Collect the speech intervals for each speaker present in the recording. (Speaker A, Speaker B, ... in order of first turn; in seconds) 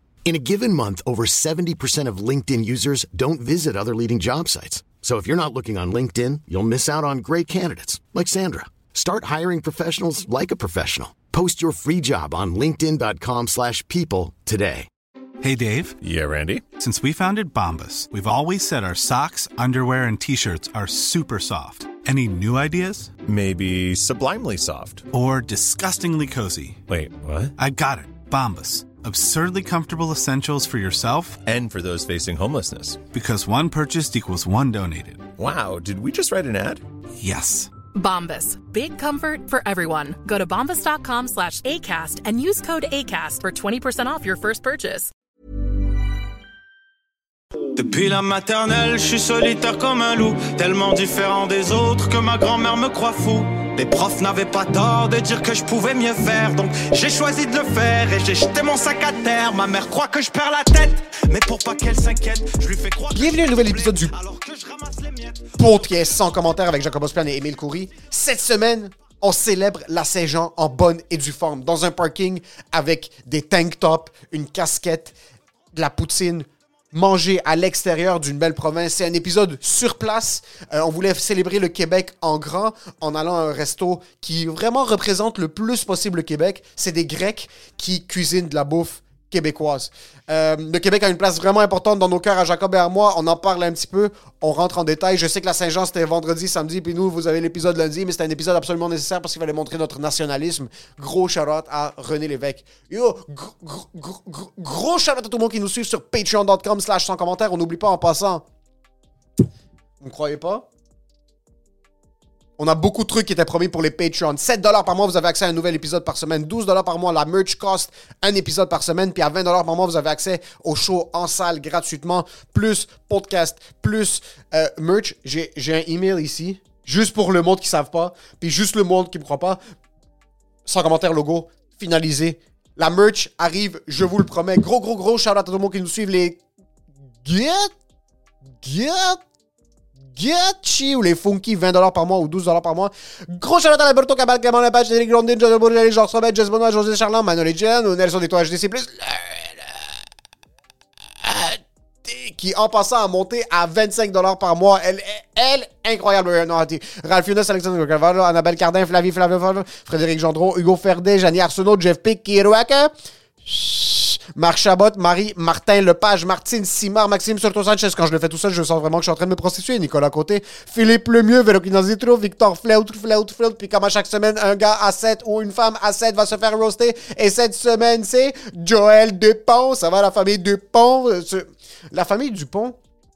Speaker A: 0.2-14.9
Speaker B: 15.4-16.0, 16.8-23.1, 25.1-26.8, 27.6-31.4, 33.1-35.3, 37.2-37.7
Speaker C: 16.0-16.6, 23.2-25.1, 26.9-27.5, 31.4-33.0, 35.4-36.8
Speaker D: 37.9-45.1
Speaker E: 47.7-65.8
Speaker F: 63.1-64.1, 65.6-75.1, 75.7-108.4, 110.0-110.7, 112.6-129.6, 130.6-136.4, 137.2-137.7, 138.6-139.2, 140.1-149.9, 151.2-162.9, 163.4-182.8